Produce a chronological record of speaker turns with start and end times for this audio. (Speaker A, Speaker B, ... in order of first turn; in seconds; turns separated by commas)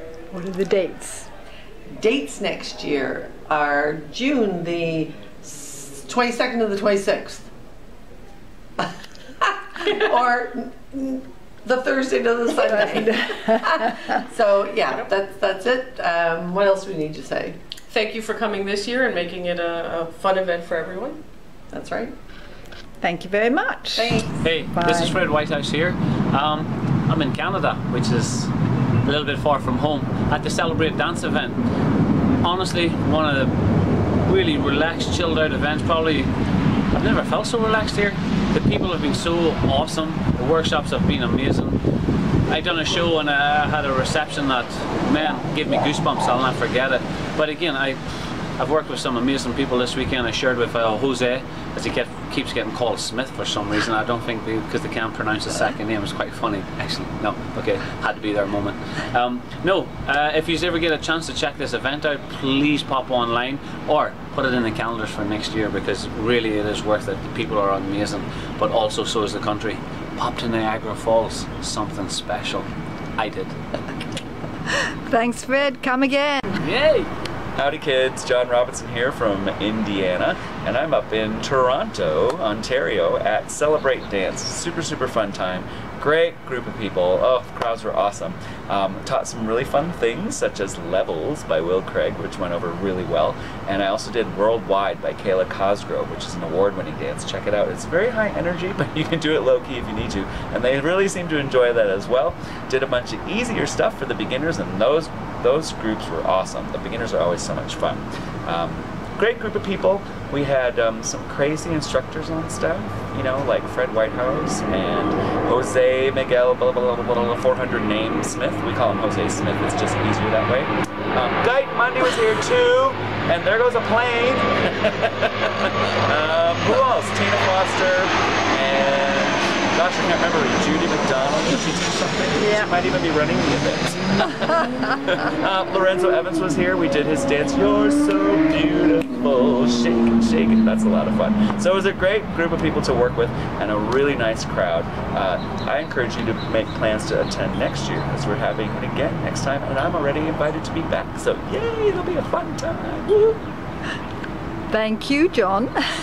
Speaker A: 0.3-1.3, Speaker B: 1.9-7.5, Speaker B: 9.4-17.6, Speaker A: 12.8-14.2, Speaker C: 17.9-21.2, Speaker B: 21.7-22.1, Speaker A: 23.0-25.1, Speaker B: 24.0-24.3, Speaker D: 24.4-28.5, Speaker D: 29.1-31.6, Speaker D: 32.4-33.5, Speaker D: 34.2-36.3, Speaker D: 36.9-41.8, Speaker D: 42.5-48.0, Speaker D: 48.6-73.5, Speaker A: 74.7-76.7, Speaker D: 76.6-77.1, Speaker E: 77.6-153.4, Speaker A: 154.7-155.8